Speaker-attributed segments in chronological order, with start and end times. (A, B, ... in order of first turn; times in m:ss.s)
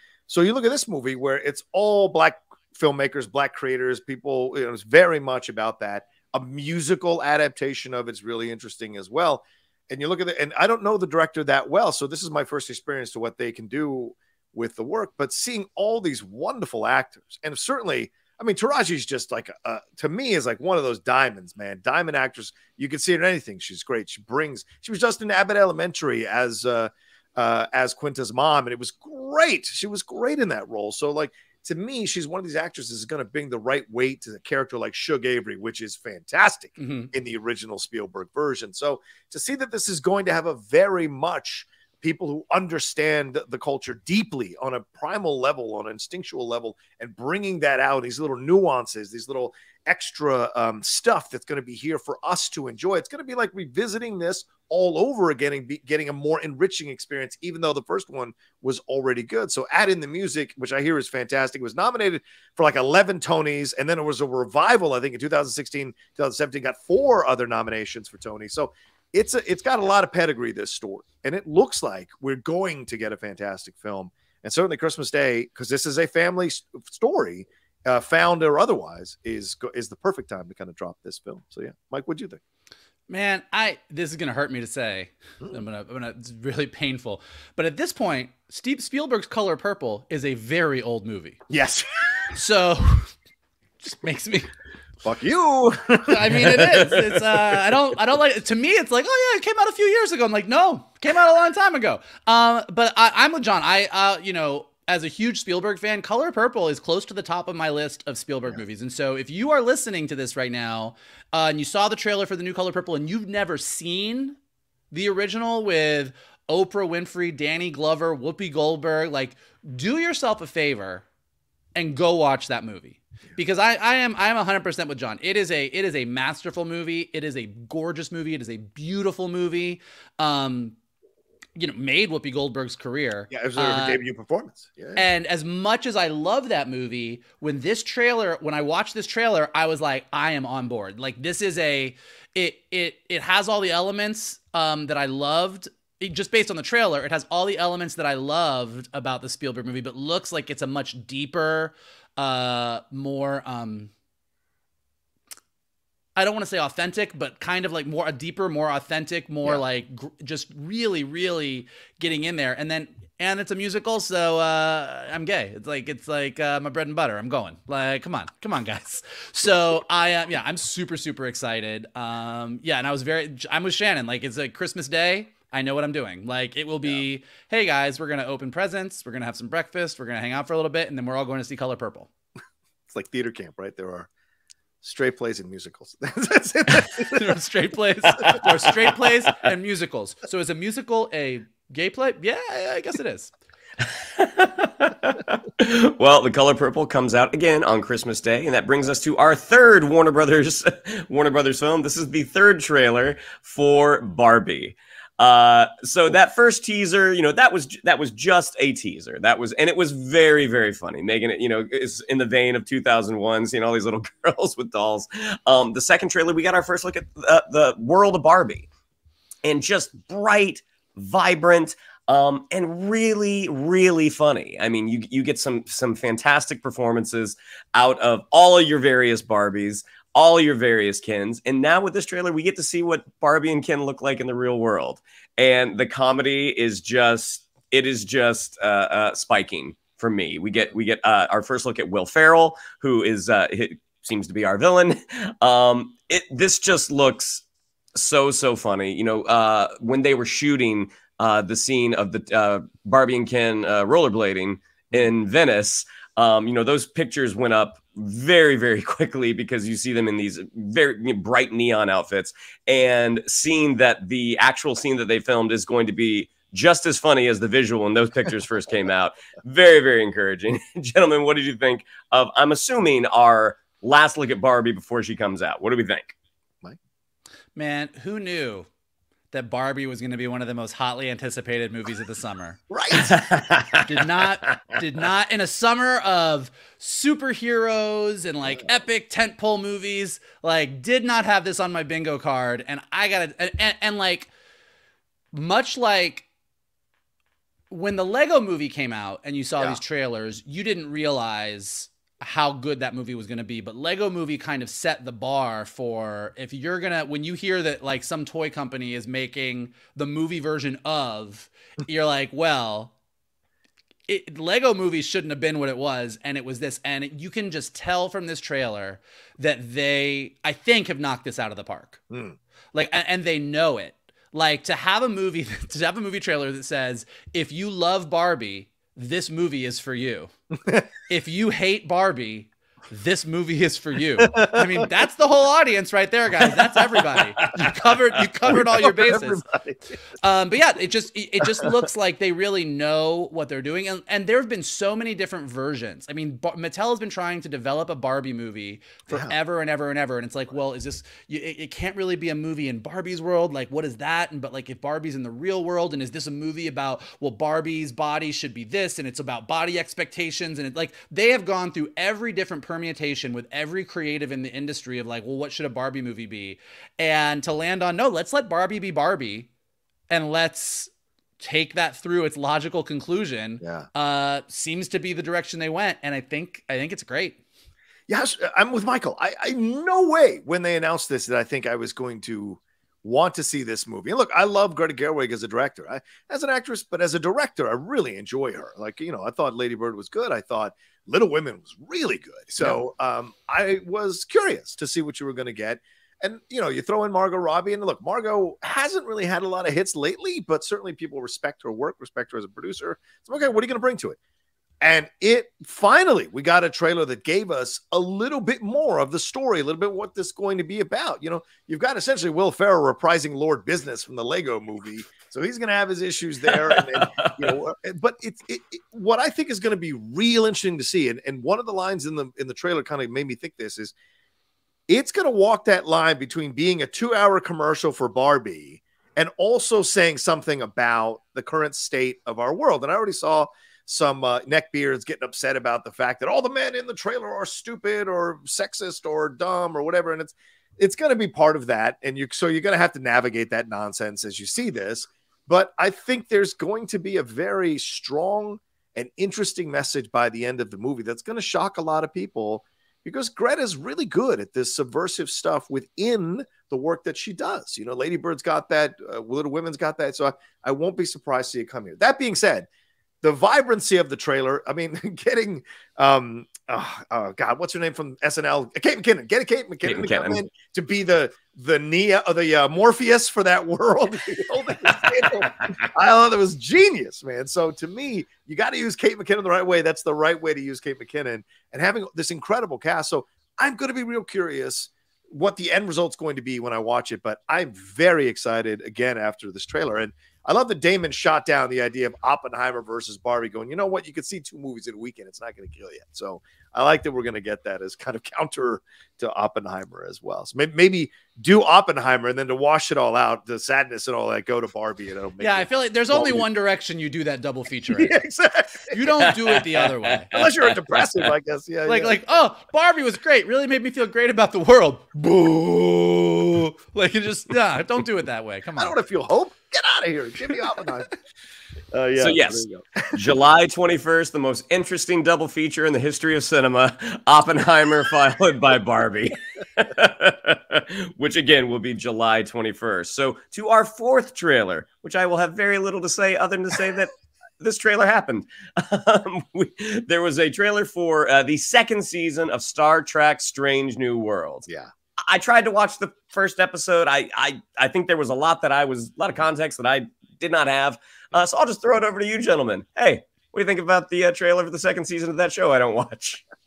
0:00.3-1:22.4 A
0:36.8-0:37.1 B
1:23.1-1:31.4 B
1:31.5-1:32.4 A
1:32.4-1:33.1 B
1:33.8-1:34.5 B
1:35.0-1:36.8 A
1:36.0-1:54.4 B
1:54.9-2:01.0 B
2:01.8-2:10.8 B
2:11.6-2:14.0 B
2:13.3-2:15.0 A
2:15.0-2:33.9 B
2:36.2-3:02.1 B
3:02.9-3:04.1 A
3:04.8-3:07.3 A
3:06.8-3:13.3 B
3:14.2-3:38.7 C
3:39.4-4:07.4 C
4:08.0-4:36.2 C
4:37.6-4:38.7 B
4:39.3-4:42.6 B
4:42.7-4:43.2 A
4:42.9-4:43.9 C
4:43.8-4:54.3 B
4:55.3-4:56.3 B
4:57.7-5:12.9 B
5:14.1-5:22.0 B
5:22.1-5:22.4 A
5:22.7-5:30.3 B
5:31.1-5:39.4 B
5:34.2-5:34.9 A
5:38.4-5:39.8 A
5:40.2-6:09.5 B
5:41.4-5:41.7 A
5:49.1-5:49.4 A
6:10.1-6:17.4 B
6:13.6-6:13.9 A
6:18.1-6:44.2 A
6:44.8-7:03.9 A
6:56.5-6:57.6 C
7:04.9-7:42.7 A
7:43.2-8:26.4 A
7:49.8-7:50.4 C
8:25.4-8:28.2 B
8:27.9-8:29.0 A
8:28.9-8:30.4 B
8:30.3-8:32.2 A
8:30.3-8:30.6 C
8:31.9-8:39.0 B
8:38.8-8:41.1 A
8:41.9-8:43.3 A
8:42.2-9:04.7 C
9:05.2-9:16.4 C